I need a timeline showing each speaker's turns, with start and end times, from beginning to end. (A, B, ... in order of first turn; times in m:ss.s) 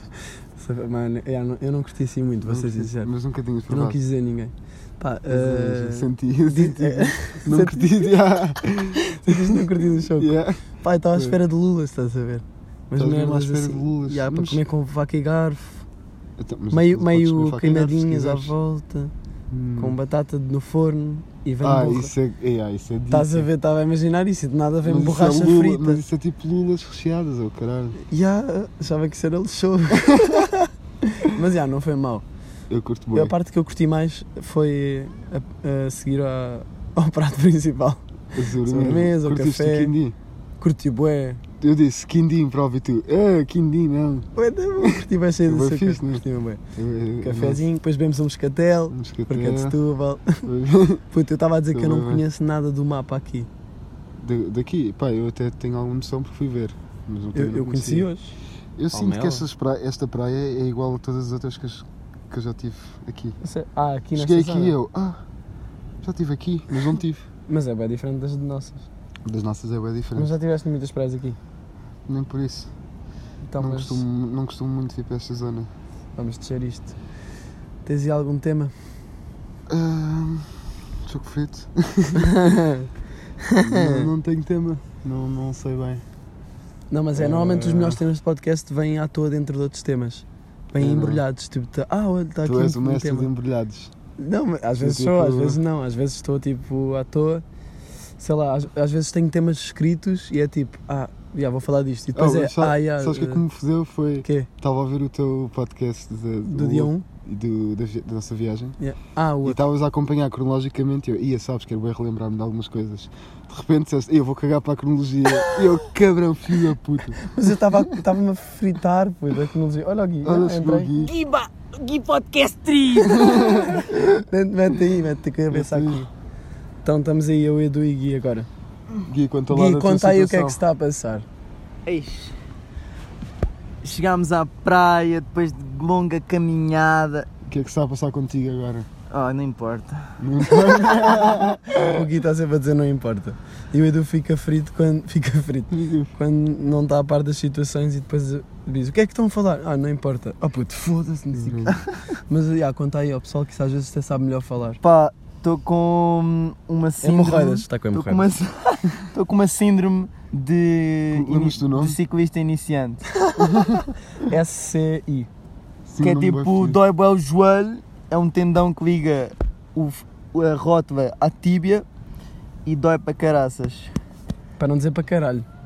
0:00.6-0:03.1 A
0:02.4-0:04.0 B
0:03.7-0:08.1 A
0:05.3-0:09.6 B
0:09.1-0:15.9 A
0:10.2-0:10.6 B
0:13.0-0:14.6 B
0:16.4-0:18.5 B
0:16.7-0:19.1 A
0:19.5-0:20.0 B
0:19.8-0:22.1 A
0:21.6-0:23.5 B
0:23.1-0:26.0 A
0:24.8-0:28.0 B
0:28.0-0:32.2 A
0:32.7-0:33.3 B
0:33.1-0:39.9 A
0:38.4-0:40.2 B
0:40.6-0:41.4 A
0:41.6-0:44.3 B
0:44.4-0:46.6 A
0:44.8-0:47.6 B
0:47.2-0:50.5 A
0:48.9-0:49.8 B
0:50.4-0:51.0 B
0:51.1-0:53.5 A
0:51.7-0:52.2 B
0:54.2-0:58.1 B
0:57.3-0:58.4 A
0:58.8-1:03.4 B
0:58.9-0:59.4 A
1:03.4-1:04.8 A
1:04.2-1:05.2 B
1:06.0-1:07.2 B
1:07.5-1:08.9 A
1:09.2-1:10.3 B
1:10.2-1:11.4 A
1:12.1-1:12.7 B
1:13.4-1:14.0 A
1:13.6-1:15.7 B
1:16.2-1:17.0 A
1:17.8-1:18.7 A
1:19.7-1:22.3 B
1:22.2-1:22.9 A
1:23.5-1:24.0 A
1:23.6-1:26.0 B
1:26.9-1:33.3 A
1:27.2-1:28.0 B
1:30.8-1:31.2 B
1:32.4-1:33.9 B
1:34.2-1:37.4 A
1:34.8-1:35.6 B
1:38.2-1:43.4 A
1:42.1-1:48.8 B
1:44.2-1:44.5 A
1:46.5-1:47.0 A
1:48.8-1:49.6 A
1:49.4-1:57.3 B
1:57.2-2:06.1 A
2:00.2-2:01.1 B
2:03.1-2:04.0 B
2:05.5-2:06.0 B
2:06.8-2:08.5 A
2:09.0-2:10.6 B
2:09.5-2:11.2 A
2:11.9-2:12.3 C
2:13.8-2:17.3 C
2:17.5-2:18.9 B
2:19.1-2:20.1 C
2:20.2-2:22.0 B
2:21.7-2:31.8 A
2:25.7-2:26.1 B
2:31.4-2:31.8 B
2:32.3-2:34.8 A
2:34.8-2:43.1 C
2:37.0-2:38.3 A
2:41.1-2:42.0 B
2:43.4-2:43.8 B
2:44.2-2:45.3 A
2:45.9-2:46.8 B
2:46.0-2:51.8 C
2:52.7-2:53.9 C
2:54.6-2:55.5 A